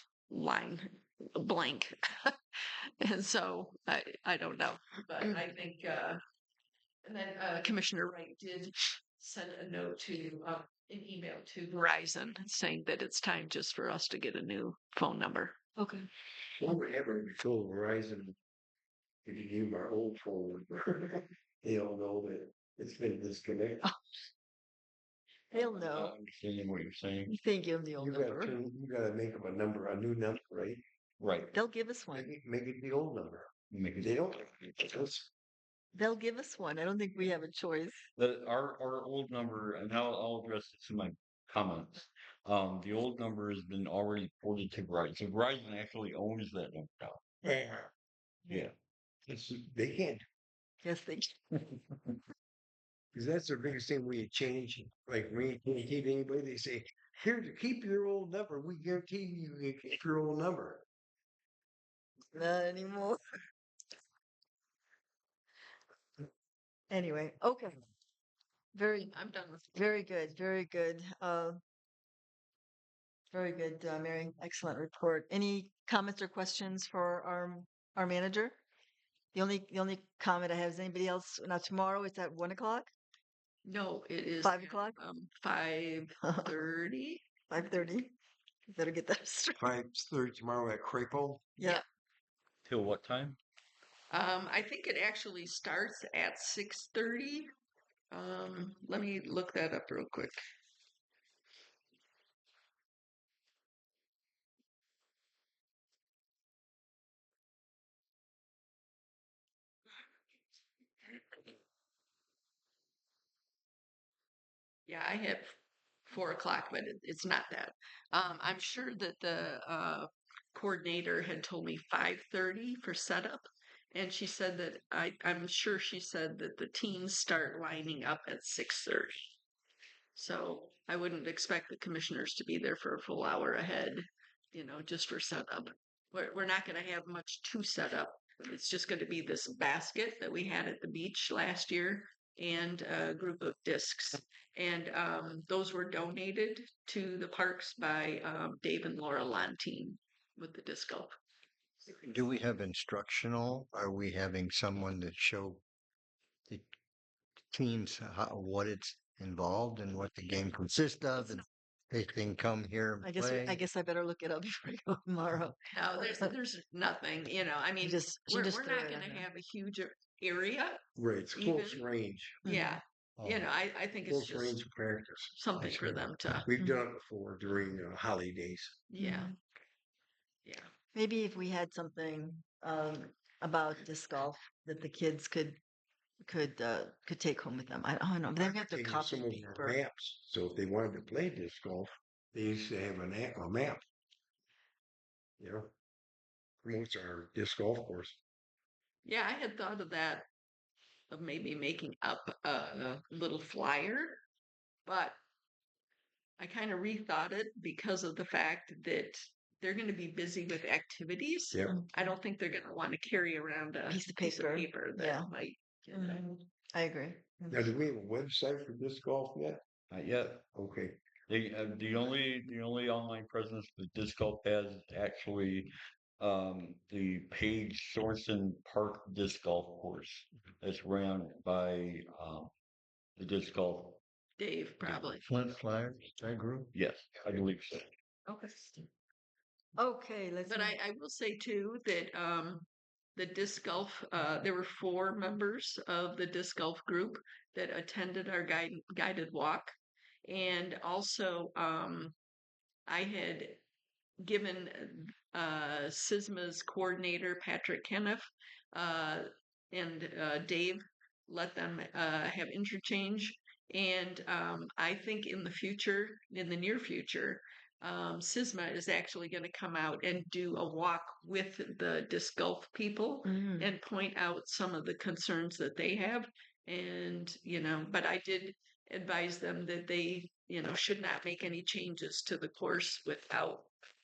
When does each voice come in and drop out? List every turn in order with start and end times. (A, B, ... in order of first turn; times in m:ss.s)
0:00.3-0:02.4 A
0:03.0-0:06.2 A
0:07.0-0:15.6 A
0:15.8-0:16.1 B
0:16.6-0:18.4 C
0:19.2-0:23.8 C
0:25.5-0:26.1 B
0:25.6-0:27.4 D
0:27.3-0:28.6 B
0:28.0-0:30.8 C
0:31.2-0:31.5 D
0:31.5-0:32.3 B
0:32.1-0:33.5 C
0:33.7-0:34.2 D
0:34.0-0:35.3 C
0:35.9-0:38.0 B
0:38.2-0:47.2 D
0:47.4-0:47.9 C
0:48.5-0:48.7 D
0:49.3-0:50.2 C
0:50.8-0:51.6 B
0:53.1-1:00.8 C
1:02.3-1:03.4 B
1:06.9-1:07.8 B
1:08.7-1:09.1 B
1:09.1-1:09.8 A
1:09.7-1:11.6 B
1:13.3-1:18.6 B
1:19.3-1:22.9 B
1:23.6-1:27.2 A
1:24.4-1:25.0 B
1:26.2-1:26.5 B
1:27.5-1:28.2 B
1:28.7-1:29.7 B
1:29.6-1:31.5 C
1:31.6-1:31.8 B
1:32.6-1:33.4 D
1:34.1-1:37.5 A
1:38.1-1:40.4 A
1:54.9-1:55.5 A
1:56.1-2:09.3 A
2:10.1-2:31.1 A
2:31.9-2:35.6 E
2:37.5-2:43.6 E
2:43.0-2:46.3 B
2:45.7-2:50.8 A
2:47.8-2:49.2 B
2:51.0-2:52.4 C
2:51.4-2:51.8 A
2:52.4-2:52.8 B
2:52.4-2:54.6 A
2:54.0-2:55.8 C
2:55.4-2:56.5 A
2:56.4-2:58.8 C
2:56.6-2:56.8 B
2:58.9-2:59.3 A
2:59.0-2:59.3 B
3:00.9-3:05.6 B
3:06.2-3:09.8 B
3:08.4-3:13.8 C
3:15.4-3:15.7 C
3:16.6-3:18.2 C
3:19.0-3:20.2 A
3:21.1-3:24.2 A
3:24.8-3:25.2 A
3:26.4-3:36.2 A
3:33.9-3:35.3 B
3:35.9-3:37.7 B
3:37.5-3:39.6 C
3:39.9-3:40.4 D
3:40.5-3:41.0 C
3:41.3-3:52.5 D
3:53.2-3:54.0 D
3:54.4-3:55.2 A
3:54.9-3:56.7 E
3:56.7-3:57.9 D
3:58.3-3:58.8 A
3:59.8-4:00.8 B
4:00.5-4:09.7 A
4:10.2-4:12.2 A
4:12.9-4:13.6 A
4:14.2-4:43.7 A
4:33.2-4:33.7 B